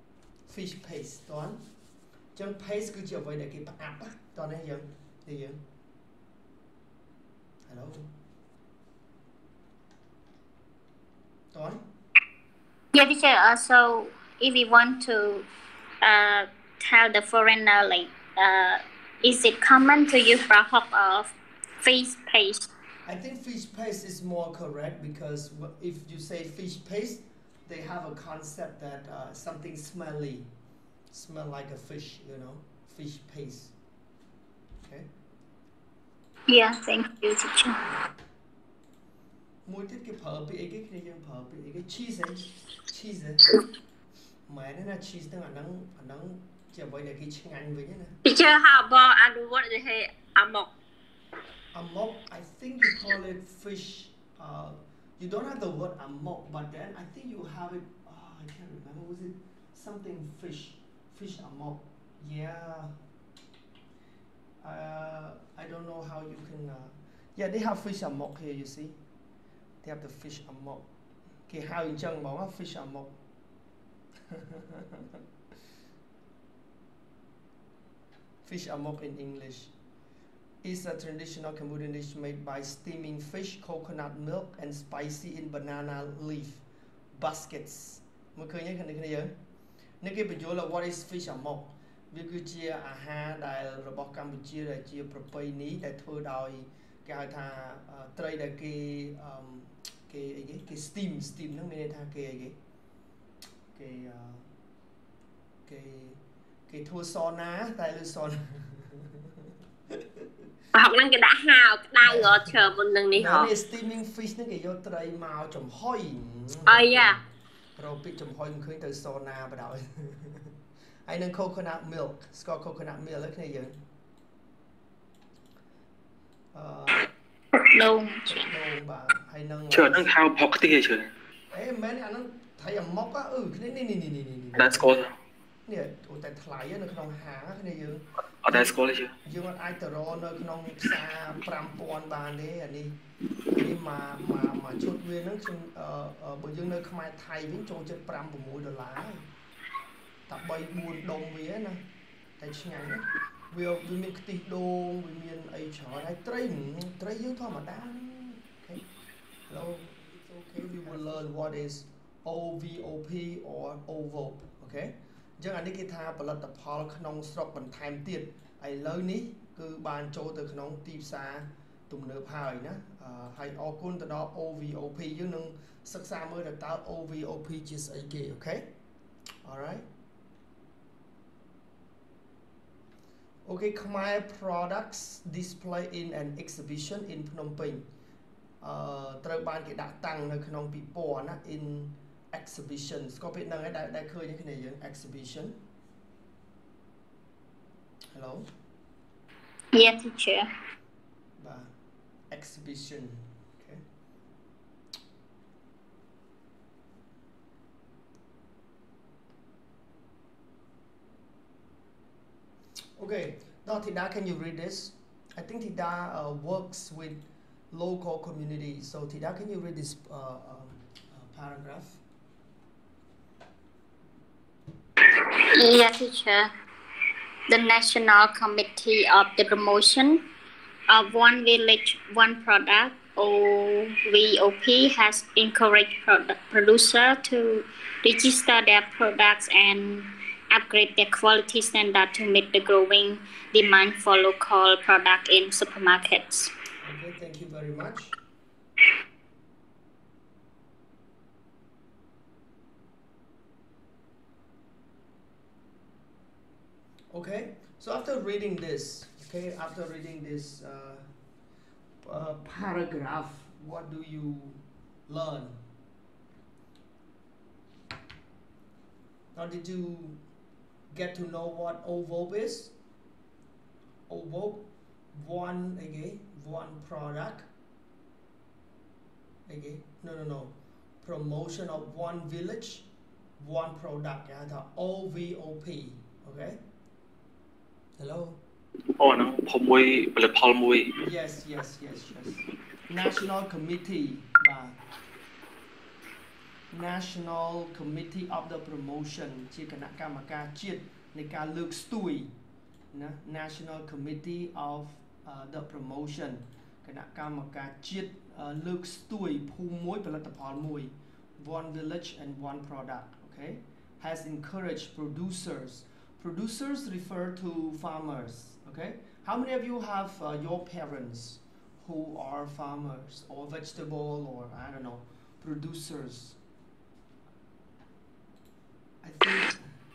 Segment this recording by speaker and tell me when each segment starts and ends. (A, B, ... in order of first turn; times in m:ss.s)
0:00.5-0:01.6 A
0:02.3-0:05.6 A
0:07.7-0:08.1 A
0:11.5-0:11.8 A
0:12.9-0:15.4 B
0:16.0-0:22.7 B
0:23.1-0:30.5 A
0:31.1-0:33.7 A
0:36.5-0:37.8 B
0:39.6-0:43.4 A
0:44.5-0:48.2 A
0:48.2-0:50.7 C
0:51.7-1:02.9 A
1:04.6-1:09.0 A
1:09.8-1:10.9 A
1:11.5-1:13.2 A
1:14.3-1:15.0 A
1:18.4-1:19.7 A
1:20.6-1:29.3 A
1:30.0-1:42.6 A
1:43.7-1:44.4 A
1:45.6-1:49.2 A
1:50.7-1:53.5 C
1:52.1-1:52.6 A
1:53.1-1:57.2 A
1:56.7-1:57.2 C
1:57.8-2:00.4 A
2:01.1-2:03.8 A
2:06.5-2:07.1 A
2:07.6-2:08.4 B
2:08.3-2:10.1 A
2:09.7-2:11.1 D
2:11.5-2:14.9 A
2:14.6-2:15.1 D
2:15.6-2:23.0 A
2:18.4-2:19.1 D
2:23.5-2:29.3 A
2:30.3-2:31.8 A
2:32.4-2:38.8 A
2:39.5-2:58.7 A
2:59.4-2:59.8 A
3:03.4-3:07.8 A
3:08.6-3:15.6 A
3:18.1-3:18.4 A
3:19.7-3:20.5 B
3:21.4-3:21.7 A
3:22.3-3:23.8 A
3:33.0-3:42.0 A
3:45.5-3:46.5 B
3:47.5-3:50.2 B
3:50.9-4:06.5 B
4:06.8-4:08.2 A
4:17.1-4:21.1 A
4:22.0-4:25.6 A
4:29.3-4:30.2 A
4:30.9-4:32.7 A
4:34.1-4:37.5 A
4:39.5-4:42.8 A
4:43.4-4:46.6 A
4:48.0-4:48.4 A
4:49.0-4:50.9 D
4:51.0-4:54.8 A
4:56.7-5:02.3 A
5:02.9-5:26.4 A
5:29.0-5:29.6 A